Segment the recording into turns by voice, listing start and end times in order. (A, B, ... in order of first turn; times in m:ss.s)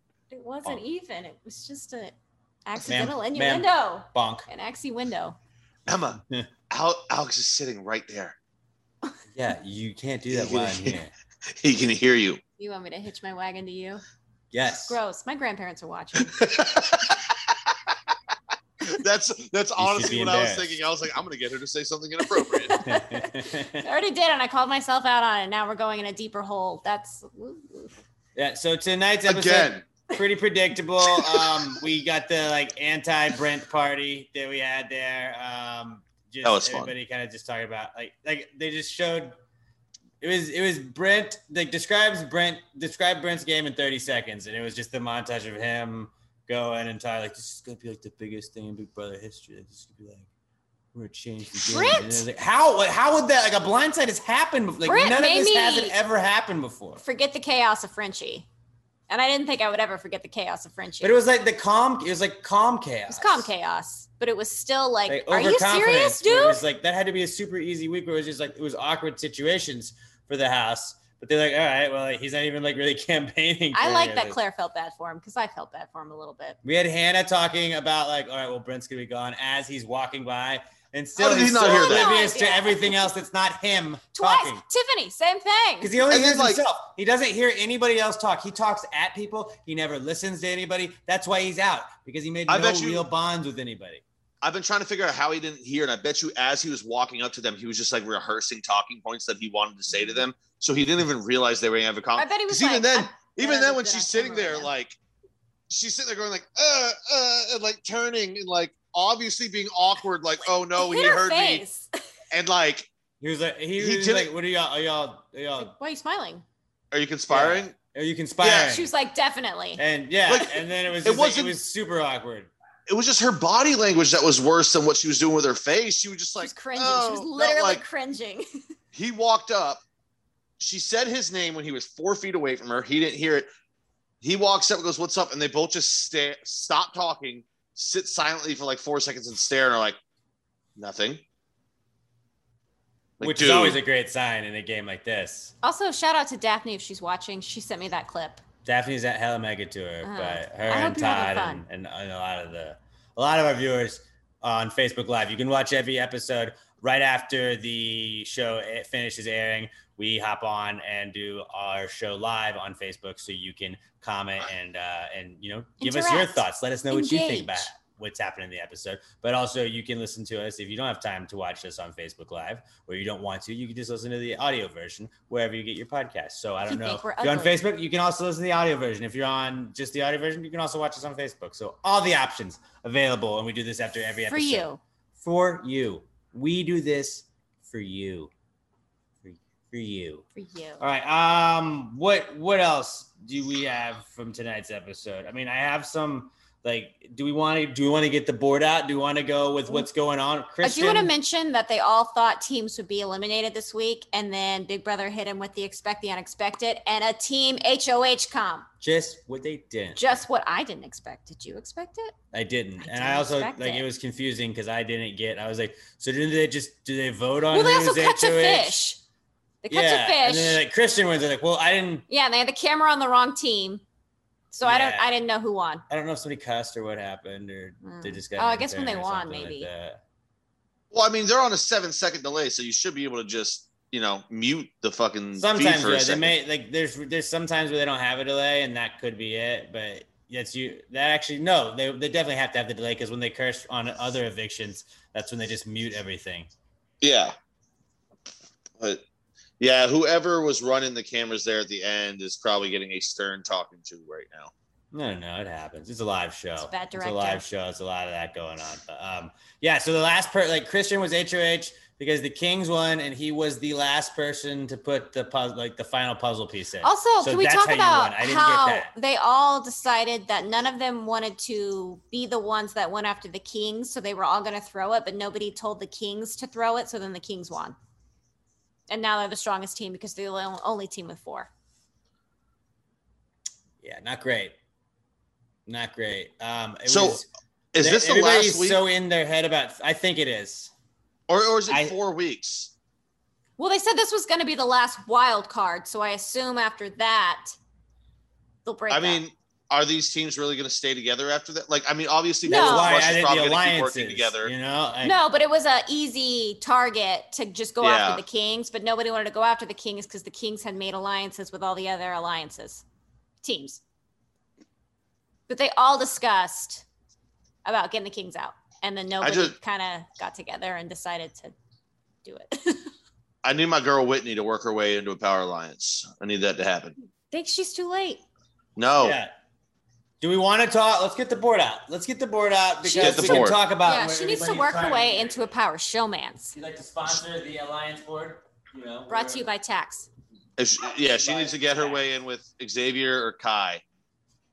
0:00.3-0:02.2 A
0:02.7-0:05.4 A
0:02.8-0:04.5 B
0:05.9-0:08.4 C
0:06.2-0:06.5 B
0:09.3-0:11.1 B
0:10.3-0:11.0 C
0:11.5-0:12.4 C
0:12.6-0:14.0 A
0:14.5-0:15.0 B
0:14.9-0:16.6 A
0:16.3-0:17.9 C
0:18.8-0:22.8 C
0:19.8-0:20.8 B
0:22.5-0:28.0 A
0:22.8-0:23.9 B
0:28.4-0:39.4 B
0:29.3-0:29.8 C
0:31.2-0:31.6 C
0:36.4-0:36.9 C
0:40.2-0:50.3 B
0:50.9-0:57.0 B
0:51.6-0:52.2 A
0:54.8-0:56.0 A
0:57.0-0:58.5 A
0:59.1-1:01.2 A
1:01.0-1:03.5 B
1:03.1-1:06.6 A
1:05.1-1:14.4 B
1:13.7-1:16.6 A
1:16.6-1:24.6 B
1:21.2-1:22.2 C
1:21.6-1:23.1 A
1:24.2-1:26.0 A
1:25.8-1:34.0 B
1:26.1-1:26.6 C
1:32.5-1:33.0 C
1:34.4-1:45.0 C
1:42.2-1:44.7 A
1:45.7-1:51.6 C
1:50.8-1:52.0 A
1:52.3-1:52.9 C
1:53.2-1:55.7 B
1:53.8-1:54.3 C
1:55.6-1:56.4 A
1:56.9-1:57.7 C
1:57.3-1:58.9 B
1:58.4-1:58.7 C
1:58.6-1:59.8 A
1:59.8-2:02.5 B
2:00.3-2:01.6 C
2:02.9-2:07.8 C
2:06.4-2:08.5 A
2:08.9-2:09.8 C
2:10.6-2:13.5 C
2:14.2-2:20.0 C
2:20.8-2:21.2 C
2:23.2-2:23.8 C
2:23.2-2:25.5 B
2:25.6-2:28.4 A
2:28.6-3:04.7 B
2:30.0-2:31.6 A
2:45.8-2:47.7 A
2:56.7-2:57.6 A
3:04.3-3:04.8 A
3:05.2-3:08.3 B
3:09.2-3:10.2 B
3:10.4-3:10.8 A
3:10.8-3:21.1 B
3:20.6-3:28.7 A
3:28.8-3:30.2 B
3:30.0-3:32.2 A
3:32.3-3:38.8 B
3:32.8-3:33.9 A
3:37.5-3:39.0 A
3:39.6-3:40.6 A
3:39.7-3:42.0 B
3:42.1-3:43.8 A
3:44.5-3:45.8 A
3:44.6-3:45.1 B
3:45.9-3:50.0 B
3:47.8-3:49.7 A
3:50.9-3:56.3 C
3:55.4-4:06.5 B
4:07.0-4:07.3 C
4:09.6-4:14.5 C
4:14.9-4:28.9 B
4:16.6-4:17.4 A
4:26.8-4:37.8 A
4:38.9-4:41.5 A
4:43.8-4:44.6 B
4:45.7-4:50.7 B
4:46.9-4:47.2 C
4:47.7-4:48.8 C
4:51.3-4:52.7 C
4:51.7-4:52.0 B
4:53.6-4:57.6 A
4:58.6-4:59.2 A
4:58.9-5:04.5 C
5:02.4-5:03.0 A
5:02.5-5:05.2 B
5:05.0-5:12.8 A
5:07.8-5:08.2 C
5:13.4-5:13.8 A
5:15.5-5:16.9 A
5:17.6-5:21.5 A
5:19.2-5:19.6 C
5:22.2-5:22.9 A
5:23.4-5:27.0 C
5:27.3-5:28.2 A
5:28.8-5:29.2 C
5:29.0-5:29.3 B
5:30.2-5:35.5 B
5:32.8-5:36.6 A
5:33.0-5:33.6 C
5:36.5-5:39.5 B
5:39.1-5:40.1 A
5:40.6-5:43.8 C
5:41.0-5:42.0 B